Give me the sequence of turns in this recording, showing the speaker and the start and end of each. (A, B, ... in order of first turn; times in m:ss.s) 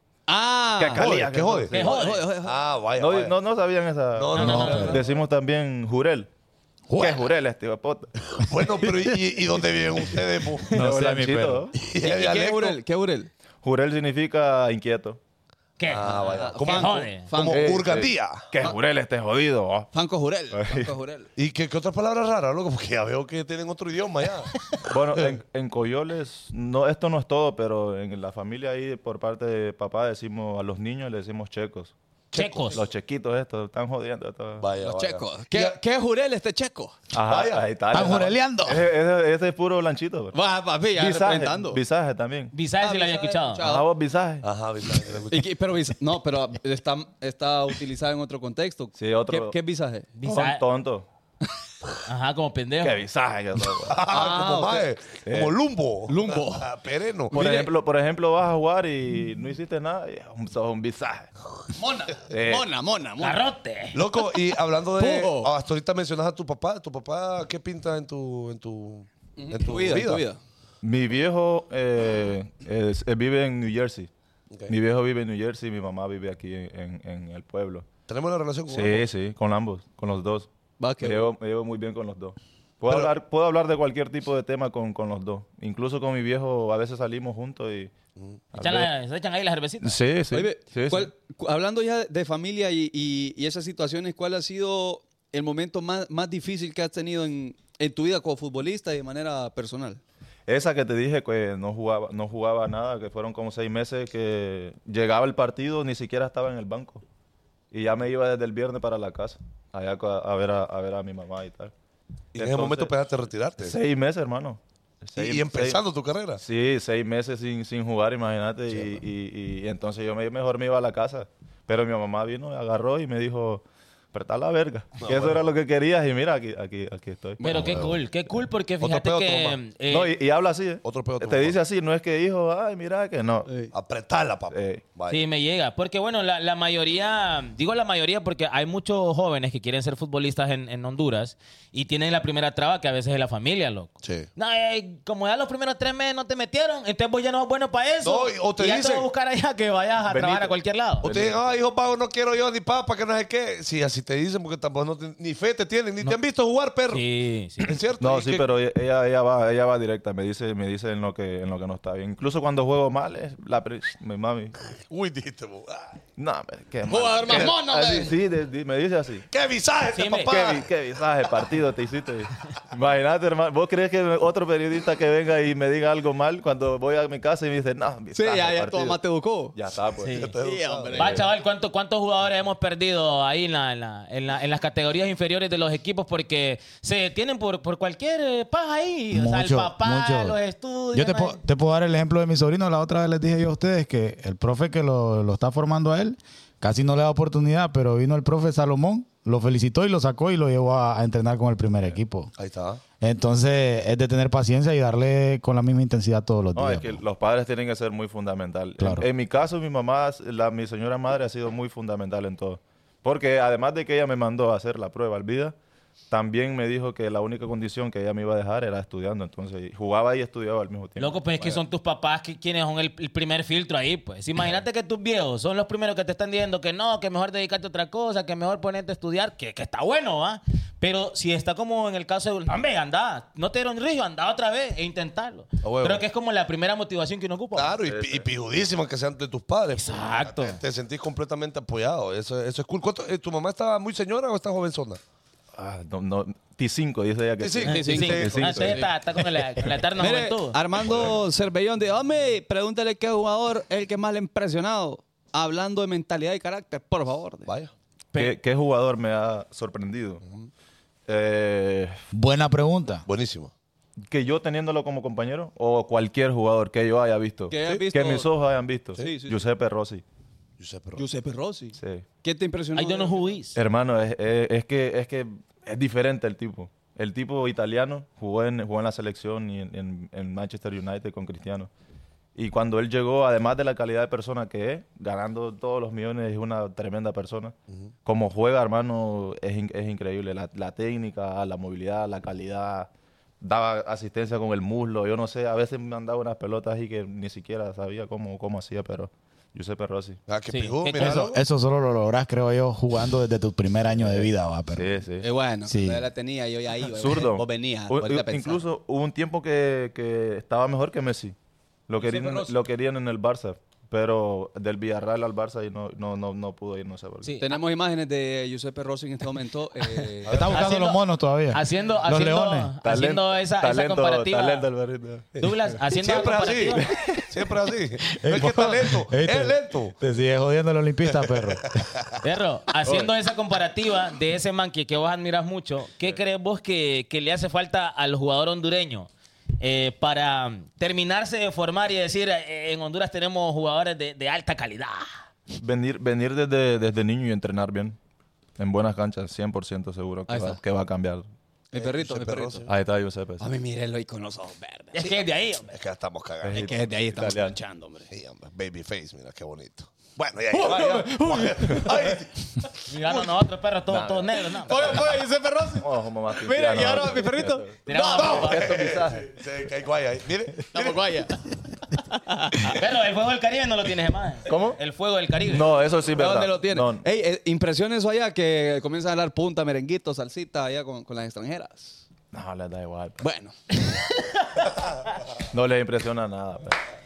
0:00.3-0:01.1 A
0:00.8-0:02.0 B
0:01.0-0:01.7 C
0:01.7-0:02.3 D
0:01.7-0:02.6 A
0:02.4-0:03.3 C
0:03.0-0:06.3 B
0:04.1-0:05.0 C
0:04.3-0:05.0 D
0:04.4-0:05.0 E
0:06.9-0:07.2 E
0:07.0-0:08.1 B
0:08.4-0:10.8 C
0:10.7-0:11.7 E
0:10.7-0:11.7 B
0:11.7-0:12.8 C
0:12.0-0:13.3 A
0:13.6-0:15.2 B
0:15.8-0:17.3 D
0:15.9-0:18.5 C
0:16.0-0:18.0 A
0:17.5-0:19.9 B
0:19.9-0:21.3 A
0:20.5-0:20.9 B
0:21.4-0:24.5 C
0:24.8-0:31.9 B
0:32.3-0:32.8 C
0:32.3-0:32.8 D
0:32.7-0:34.7 B
0:34.6-0:35.8 C
0:34.8-0:36.9 A
0:37.1-0:40.4 B
0:37.2-0:37.6 C
0:37.9-0:38.9 E
0:40.3-0:41.8 A
0:40.9-0:42.5 B
0:42.5-0:43.7 D
0:42.8-0:43.8 A
0:43.6-0:44.4 B
0:44.4-0:45.5 C
0:45.3-0:50.1 A
0:49.0-0:49.6 B
0:50.2-0:50.6 D
0:50.3-0:51.0 B
0:52.0-0:53.0 D
0:52.8-0:54.1 B
0:53.8-0:57.3 C
0:54.1-0:54.9 A
0:55.2-0:55.6 B
0:56.1-0:56.7 A
0:57.3-0:57.7 A
0:57.3-1:01.3 B
1:01.8-1:03.4 A
1:02.3-1:02.7 B
1:03.2-1:04.0 D
1:03.9-1:10.2 C
1:05.0-1:05.5 A
1:09.4-1:10.4 A
1:10.8-1:14.1 B
1:14.7-1:17.9 B
1:18.1-1:19.0 C
1:18.7-1:20.5 B
1:20.8-1:21.3 A
1:21.0-1:27.9 B
1:22.9-1:23.1 C
1:28.5-1:28.9 B
1:28.6-1:30.0 D
1:29.8-1:31.1 B
1:30.3-1:40.0 A
1:40.5-1:47.0 B
1:47.7-1:51.7 B
1:52.3-1:52.9 B
1:52.3-1:53.8 C
1:53.6-1:55.8 B
1:55.2-1:56.4 C
1:56.4-2:08.0 B
1:58.7-1:59.0 C
2:05.0-2:05.5 C
2:07.4-2:10.1 D
2:07.5-2:08.0 C
2:08.8-2:09.6 C
2:09.9-2:13.6 B
2:10.8-2:11.6 C
2:13.4-2:13.7 A
2:13.7-2:15.2 C
2:14.5-2:14.8 B
2:15.1-2:31.1 D
2:24.0-2:24.3 C
2:28.0-2:29.1 C
2:30.1-2:31.6 B
2:31.0-2:37.0 C
2:36.9-2:37.8 D
2:37.6-2:38.5 C
2:38.0-2:44.6 B
2:44.8-2:46.0 C
2:46.2-2:49.2 B
2:46.9-2:48.1 A
2:47.2-2:47.5 C
2:49.3-2:50.7 C
2:49.9-2:50.4 D
2:50.2-2:59.0 B
2:58.1-2:59.6 A
2:59.5-3:00.3 B
3:00.0-3:00.3 D
3:00.1-3:01.2 C
3:00.4-3:01.2 A
3:00.9-3:11.4 D
3:09.1-3:10.4 E
3:10.9-3:22.3 E
3:22.4-3:22.8 C
3:23.0-3:27.0 E
3:26.5-3:35.5 B
3:28.8-3:29.0 E
3:36.1-3:41.6 B
3:41.0-3:57.8 D
3:55.6-3:56.0 C
3:57.5-4:05.0 C
3:57.8-3:58.2 B
3:59.7-4:00.6 D
4:05.6-4:08.9 B
4:07.4-4:08.8 C
4:07.6-4:08.9 A
4:07.7-4:10.6 D
4:10.0-4:17.5 A
4:17.4-4:17.7 C
4:18.1-4:20.2 B
4:21.1-4:22.0 B
4:22.1-4:23.0 E
4:23.0-4:23.5 C
4:24.1-4:30.0 B
4:27.5-4:28.3 A
4:29.0-4:29.4 A
4:30.6-4:31.0 C
4:31.0-4:33.3 A
4:31.8-4:32.0 B
4:32.7-4:33.6 D
4:33.5-4:41.7 B
4:42.3-4:52.9 B
4:53.4-5:00.2 B
5:00.3-5:01.4 C
5:00.5-5:01.2 D
5:01.0-5:04.9 E
5:03.9-5:05.3 B
5:05.2-5:08.6 A
5:05.7-5:06.0 E
5:06.9-5:11.4 B
5:11.9-5:17.3 B
5:12.0-5:12.6 A
5:17.2-5:17.6 D
5:17.4-5:20.4 A
5:20.2-5:20.7 C
5:20.3-5:22.7 E
5:20.5-5:24.7 D
5:22.8-5:25.5 B
5:25.4-5:26.8 D
5:25.9-5:29.9 C
5:26.8-5:27.4 B
5:28.2-5:31.9 E
5:31.1-5:32.1 C
5:32.2-5:45.1 D
5:32.8-5:33.1 B
5:45.5-5:48.0 B
5:48.6-5:51.3 B
5:50.3-5:50.6 A
5:51.7-5:52.7 A
5:51.7-5:52.7 C
5:52.6-5:53.5 B
5:53.4-5:55.2 A
5:54.9-5:55.8 D
5:55.7-5:56.8 C
5:56.4-5:57.6 B
5:56.5-5:58.1 A
5:58.1-6:02.7 C
6:00.5-6:02.1 A
6:02.9-6:05.1 D
6:03.9-6:05.1 B
6:04.6-6:05.8 A
6:05.8-6:09.3 B
6:06.4-6:08.5 A
6:07.9-6:08.8 D
6:08.2-6:11.1 C
6:10.7-6:12.8 A
6:12.6-6:15.7 D
6:14.4-6:14.8 B
6:15.4-6:17.0 B
6:16.2-6:22.0 A
6:22.3-6:23.2 B
6:23.2-6:23.5 A
6:23.9-6:24.7 D
6:25.5-6:26.8 B